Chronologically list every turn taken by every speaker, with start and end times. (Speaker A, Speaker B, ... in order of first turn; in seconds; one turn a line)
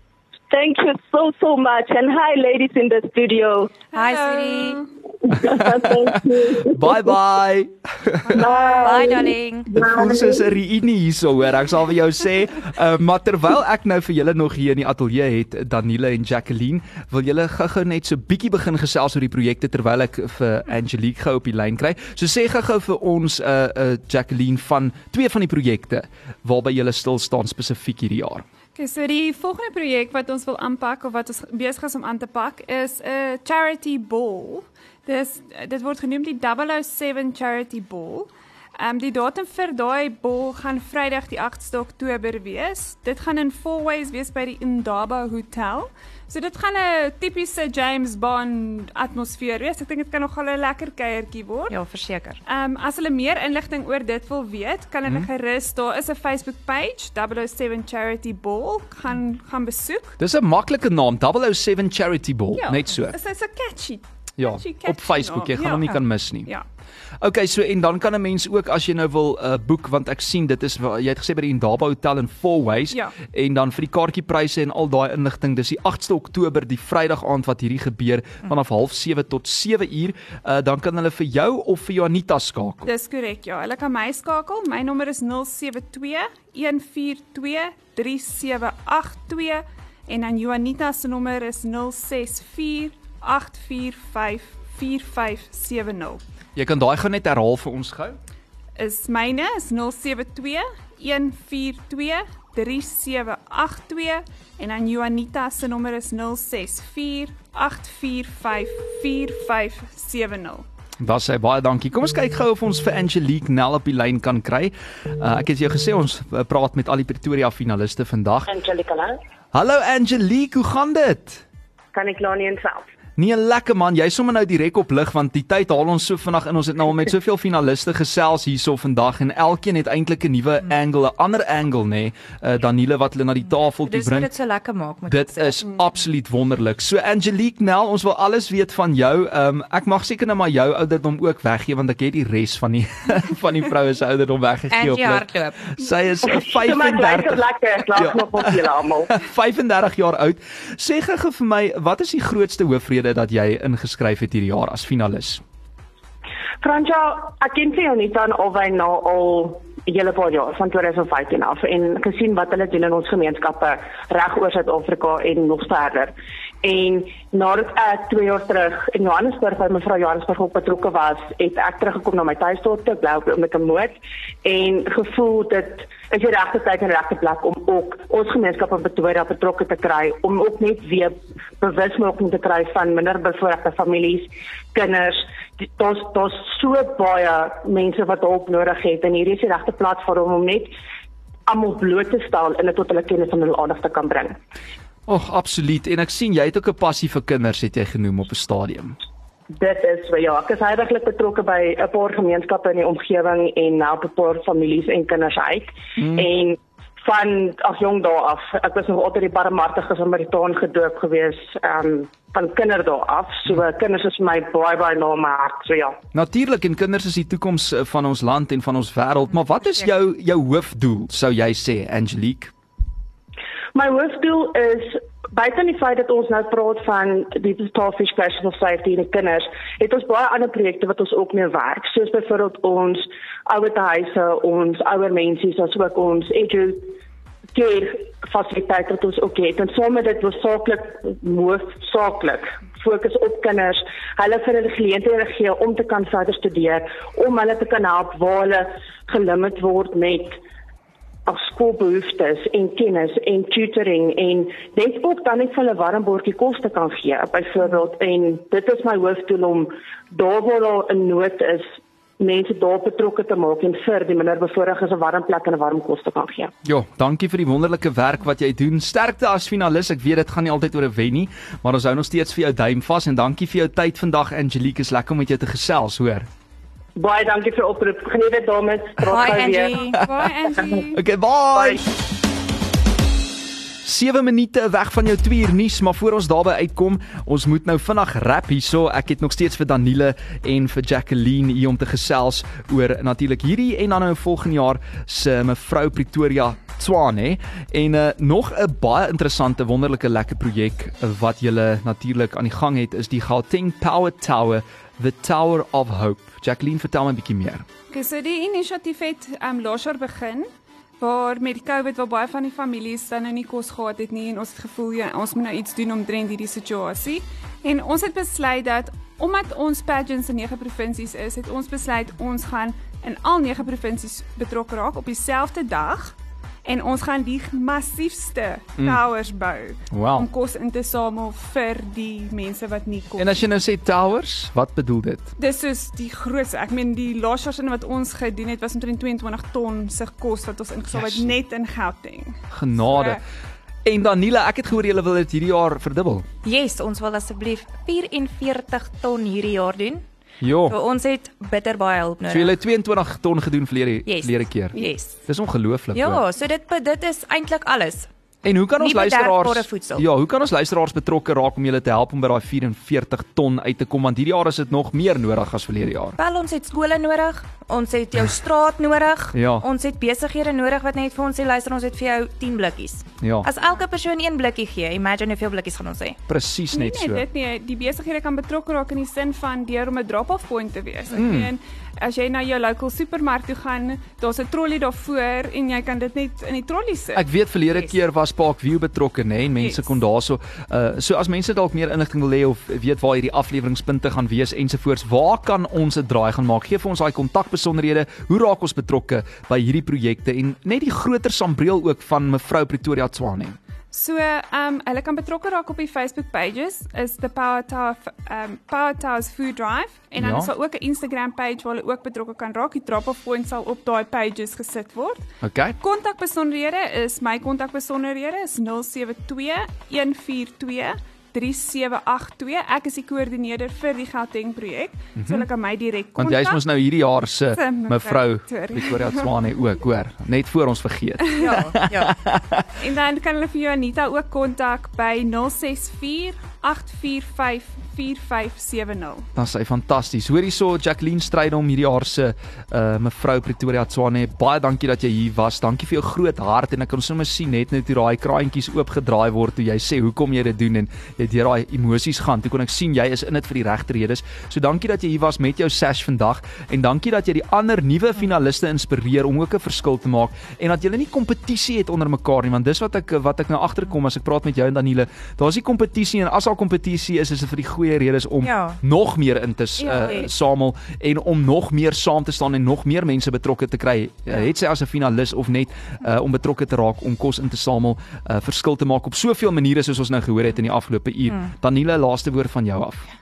Speaker A: 0.5-3.7
Speaker B: 3.9-4.8
Speaker C: 3.9-4.8
Speaker A: 5.3-7.1
Speaker D: 5.5-8.5
Speaker B: 8.3-8.8
Speaker A: 8.3-10.3
Speaker C: 8.8-9.7
Speaker D: 9.7-28.4
Speaker B: 28.8-51.7
Speaker C: 51.7-52.4
Speaker B: 52.5-60.2
Speaker D: 60.2-63.2
Speaker B: 62.5-66.6
Speaker D: 64.4-66.5
Speaker D: 67.2-82.9
Speaker B: 82.8-96.2
Speaker D: 96.5-98.2
Speaker B: 98.8-110.6
Speaker D: 111.0-118.5
Speaker E: 118.5-119.2
Speaker D: 119.5-121.4
Speaker E: 121.9-122.9
Speaker D: 123.2-134.3
Speaker C: 133.8-135.7
Speaker D: 135.1-155.4
Speaker C: 144.7-145.7
Speaker E: 146.2-149.1
Speaker E: 156.6-190.7
Speaker E: 191.5-194.4
Speaker D: 195.1-199.0
Speaker E: 199.5-216.0
Speaker D: 206.0-206.3
Speaker D: 216.1-222.5
Speaker E: 223.7-236.9
Speaker E: 237.5-250.4
Speaker E: 251.2-266.5
Speaker D: 266.6-276.3
Speaker E: 276.9-279.8
Speaker C: 279.1-280.0
Speaker B: 279.4-281.0
Speaker D: 280.9-281.8
Speaker D: 283.8-307.6
Speaker B: 307.9-333.3
Speaker D: 329.9-330.3
Speaker D: 333.2-335.3
Speaker B: 335.4-343.2
Speaker D: 340.9-341.3
Speaker D: 342.5-343.2
Speaker D: 343.8-346.2
Speaker C: 346.4-350.0
Speaker D: 350.4-350.8
Speaker C: 350.7-352.6
Speaker D: 352.3-356.2
Speaker C: 354.1-355.2
Speaker C: 355.9-358.1
Speaker D: 358.4-366.2
Speaker C: 358.8-360.1
Speaker C: 366.2-376.2
Speaker D: 369.3-369.6
Speaker D: 373.2-373.5
Speaker D: 376.3-377.2
Speaker B: 376.7-387.2
Speaker D: 381.1-381.5
Speaker D: 387.1-403.6
Speaker B: 389.6-389.9
Speaker B: 403.9-426.6
Speaker D: 410.2-410.5
Speaker D: 415.4-415.8
Speaker D: 425.2-425.4
Speaker D: 426.2-432.7
Speaker B: 427.5-429.3
Speaker C: 431.4-432.1
Speaker B: 432.8-439.2
Speaker D: 439.3-483.1
Speaker C: 468.4-468.8
Speaker B: 469.8-470.2
Speaker C: 469.9-470.3